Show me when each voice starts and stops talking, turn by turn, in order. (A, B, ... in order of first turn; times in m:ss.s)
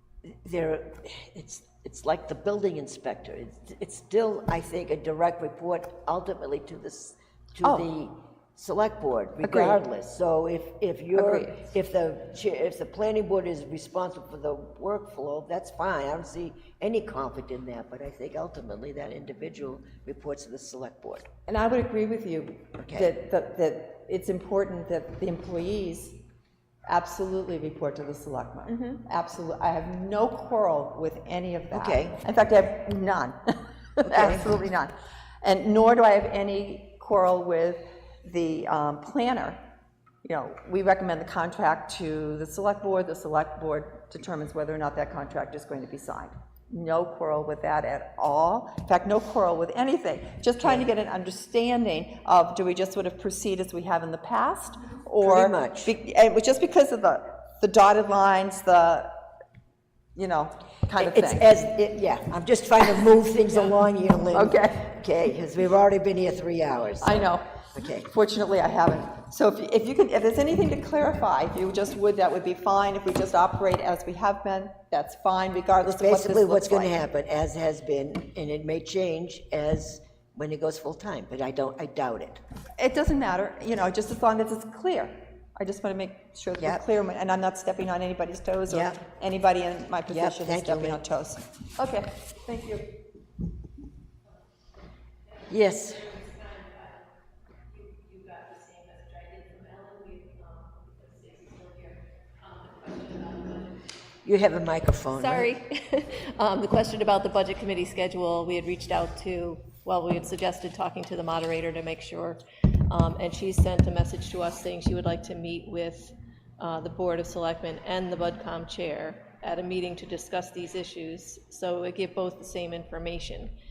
0:00.2-0:21.3 A
0:09.4-0:09.8 B
0:11.2-0:11.6 B
0:21.5-0:26.2 B
0:22.7-0:23.2 A
0:26.9-0:33.4 B
0:31.7-0:32.2 A
0:34.0-0:39.6 B
0:34.0-0:34.6 A
0:40.2-0:59.1 B
0:50.6-0:50.9 A
0:55.2-0:56.0 A
1:00.2-1:01.5 B
1:01.0-1:08.1 A
1:04.3-1:04.8 B
1:07.0-1:07.5 B
1:08.1-1:16.9 B
1:15.8-1:22.4 A
1:22.8-1:32.9 B
1:26.6-1:26.9 A
1:28.7-1:29.0 A
1:30.1-1:31.0 A
1:35.5-1:36.3 A
1:37.9-1:41.8 C
1:42.4-1:43.6 C
1:44.2-1:45.6 A
1:45.1-2:03.5 C